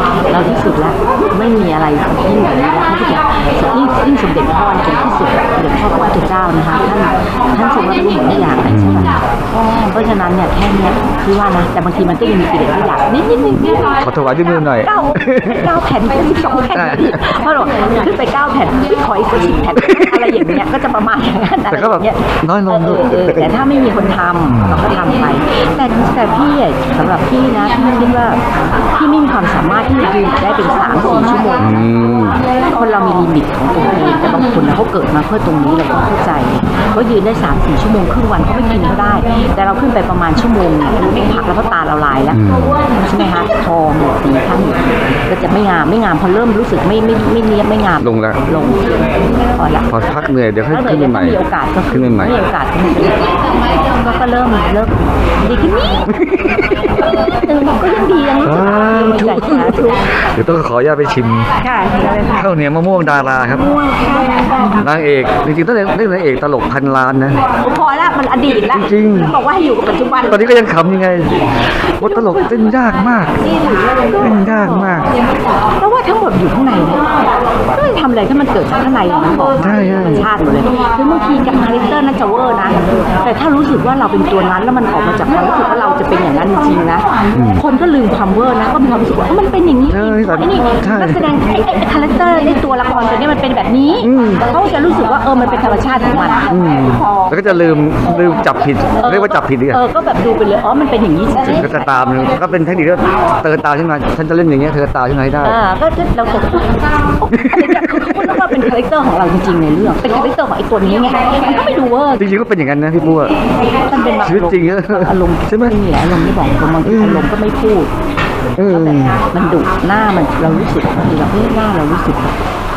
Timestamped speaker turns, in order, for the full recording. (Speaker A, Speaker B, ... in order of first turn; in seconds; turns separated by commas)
Speaker A: 0.3-14.0, Speaker B: 8.7-9.2, Speaker B: 14.0-15.7, Speaker A: 14.8-31.7, Speaker B: 16.7-17.2, Speaker B: 19.8-20.6, Speaker B: 21.7-23.6, Speaker B: 24.5-24.8, Speaker B: 31.6-32.4, Speaker A: 32.6-48.9, Speaker B: 42.3-42.8, Speaker B: 48.0-48.4, Speaker A: 49.5-49.9, Speaker B: 49.9-52.4, Speaker A: 50.7-56.1, Speaker B: 56.1-56.6, Speaker A: 57.0-60.0, Speaker B: 58.4-61.5, Speaker A: 61.6-62.4, Speaker B: 62.4-63.7, Speaker A: 63.8-64.8, Speaker B: 64.8-67.4, Speaker A: 67.6-70.6, Speaker B: 68.7-69.3, Speaker B: 70.3-71.5, Speaker A: 71.9-72.6, Speaker B: 72.0-73.3, Speaker A: 73.5-74.9, Speaker B: 74.2-75.1, Speaker A: 75.8-77.1, Speaker A: 77.7-97.3, Speaker B: 79.6-80.3, Speaker B: 87.3-87.6, Speaker B: 89.9-91.4, Speaker B: 94.0-94.5, Speaker B: 96.5-99.8, Speaker A: 99.0-102.0, Speaker B: 101.5-105.6, Speaker A: 105.4-112.3, Speaker B: 107.3-108.5, Speaker B: 112.2-113.3, Speaker A: 113.8-117.9, Speaker B: 114.2-115.7, Speaker B: 116.8-117.3, Speaker B: 118.6-119.2, Speaker A: 118.7-122.3